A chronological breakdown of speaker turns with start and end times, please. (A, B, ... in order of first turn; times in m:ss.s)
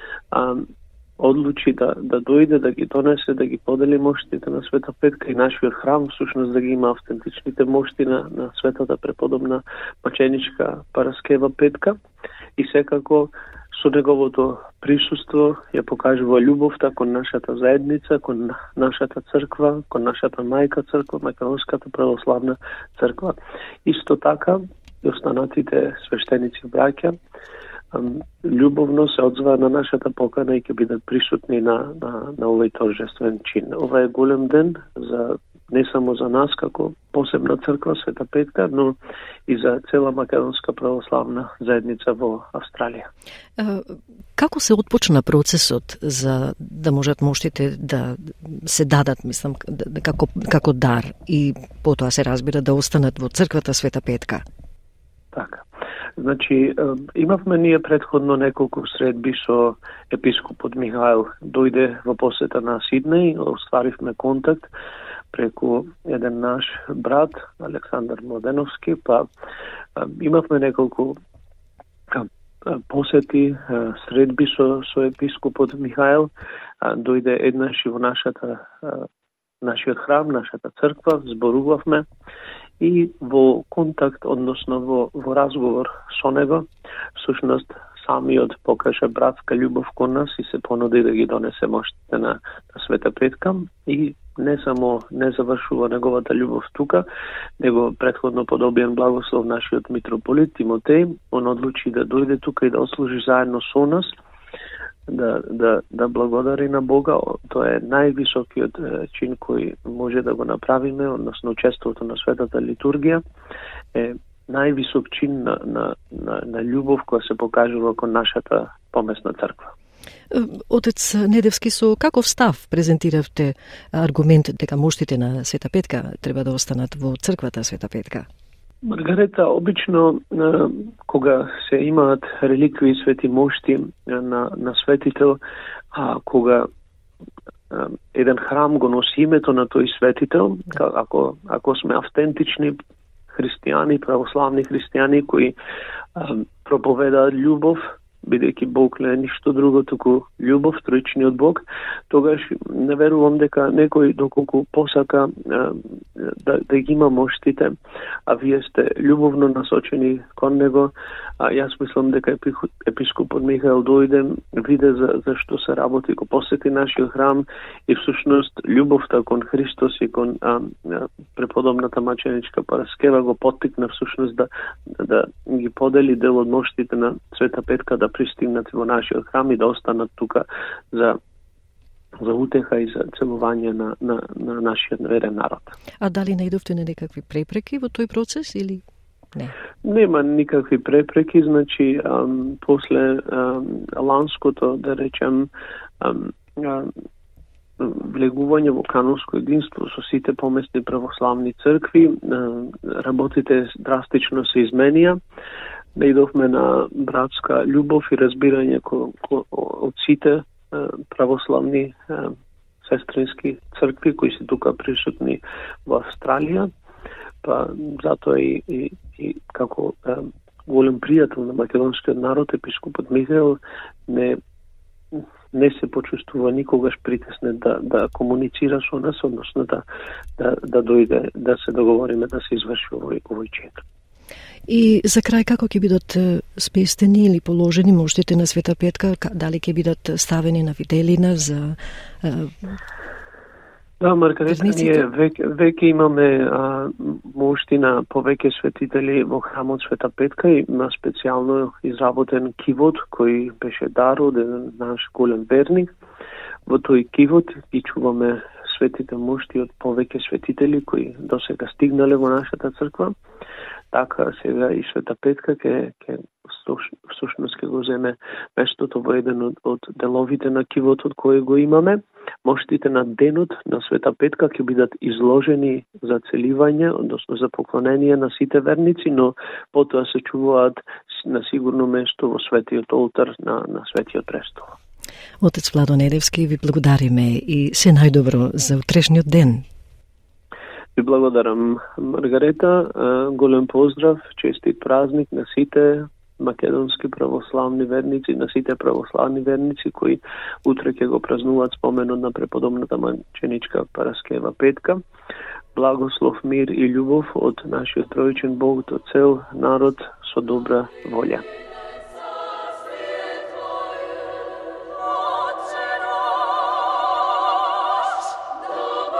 0:00.3-0:11.9 A
0:12.6-0:27.1 A
0:27.9-0:39.0 A
0:39.5-0:43.1 A
0:43.6-0:54.4 B
0:55.3-0:55.6 A
0:56.2-1:04.7 A
1:05.3-1:09.2 A
1:10.0-1:11.2 A
1:12.1-1:16.3 A
1:16.8-1:19.1 A
1:19.6-1:22.1 A
1:22.8-1:37.0 A
1:37.6-1:44.1 A
1:45.1-1:53.2 A
1:53.9-1:59.7 A
2:00.3-2:08.2 B
2:08.8-2:15.4 A
2:15.9-2:16.7 A
2:17.7-2:22.8 A
2:23.3-2:25.5 A
2:26.2-2:37.7 A
2:38.3-3:01.2 A
3:02.2-3:05.7 A
3:06.0-3:08.8 B
3:09.8-3:16.9 A
3:17.8-3:25.2 A
3:25.9-3:36.7 A
3:37.4-3:44.4 A
3:45.1-3:49.8 A
3:50.4-3:53.8 A
3:54.7-4:02.8 B
4:04.0-4:15.9 A
4:04.5-4:05.0 B
4:16.7-4:23.1 A
4:23.9-4:44.8 A
4:45.4-4:49.6 B
4:51.0-5:05.0 A
5:05.7-5:11.4 A